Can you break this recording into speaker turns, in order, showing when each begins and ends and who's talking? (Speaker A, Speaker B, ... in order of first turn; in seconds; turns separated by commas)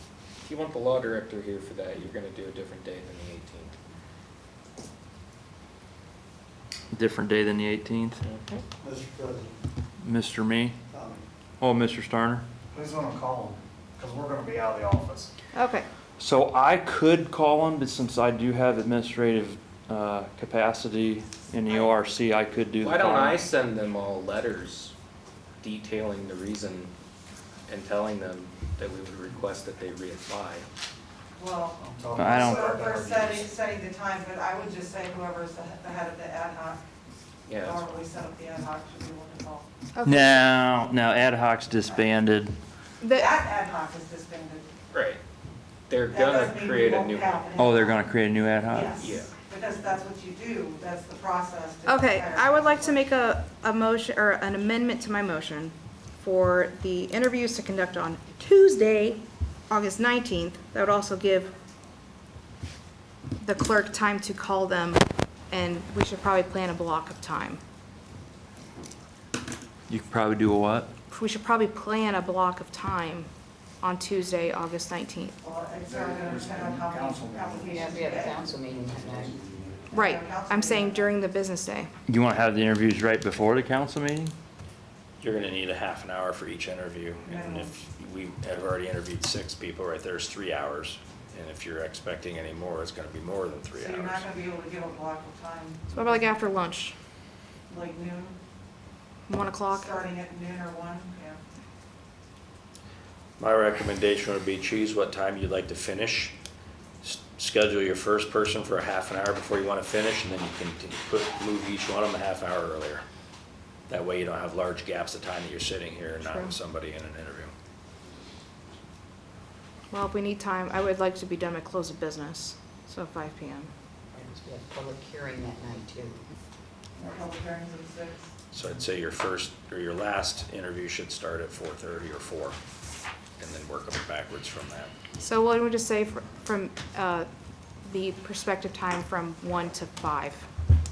Speaker A: 0.4-3.8, Speaker B: 6.9-8.2, Speaker C: 8.8-9.5, Speaker B: 10.0-10.8, Speaker B: 11.6-12.4, Speaker C: 12.7-15.3, Speaker D: 15.5-15.9, Speaker B: 16.2-23.4, Speaker A: 22.8-24.9, Speaker A: 25.6-26.9, Speaker A: 27.7-30.7, Speaker E: 31.4-31.8, Speaker C: 31.8-33.5, Speaker B: 32.2-32.8, Speaker E: 32.3-36.8, Speaker A: 37.5-38.1, Speaker E: 37.6-39.7, Speaker D: 39.9-40.4, Speaker B: 40.0-42.5, Speaker D: 43.0-43.4, Speaker E: 43.1-44.7, Speaker A: 44.9-45.2, Speaker A: 45.9-47.6, Speaker E: 46.1-48.0, Speaker B: 47.5-49.1, Speaker E: 48.7-52.9, Speaker A: 49.0-49.4, Speaker D: 51.8-61.5, Speaker D: 63.4-67.6, Speaker B: 69.9-70.9, Speaker D: 71.1-73.3, Speaker D: 73.8-75.4, Speaker E: 75.4-78.4, Speaker C: 75.8-77.8, Speaker F: 77.6-79.4, Speaker E: 79.9-81.0, Speaker D: 79.9-81.9, Speaker B: 82.1-84.3, Speaker G: 85.2-94.4, Speaker E: 87.3-87.7, Speaker E: 93.8-96.2, Speaker D: 95.9-96.9, Speaker E: 97.7-98.3, Speaker D: 99.3-99.9, Speaker E: 99.7-101.4, Speaker G: 103.4-106.3, Speaker G: 107.0-113.0, Speaker G: 113.9-117.5, Speaker D: 116.2-116.5, Speaker D: 119.9-123.7, Speaker F: 124.1-126.2, Speaker E: 127.0-128.3, Speaker G: 128.5-132.6, Speaker G: 133.4-134.9, Speaker D: 135.2-137.3, Speaker D: 137.8-140.5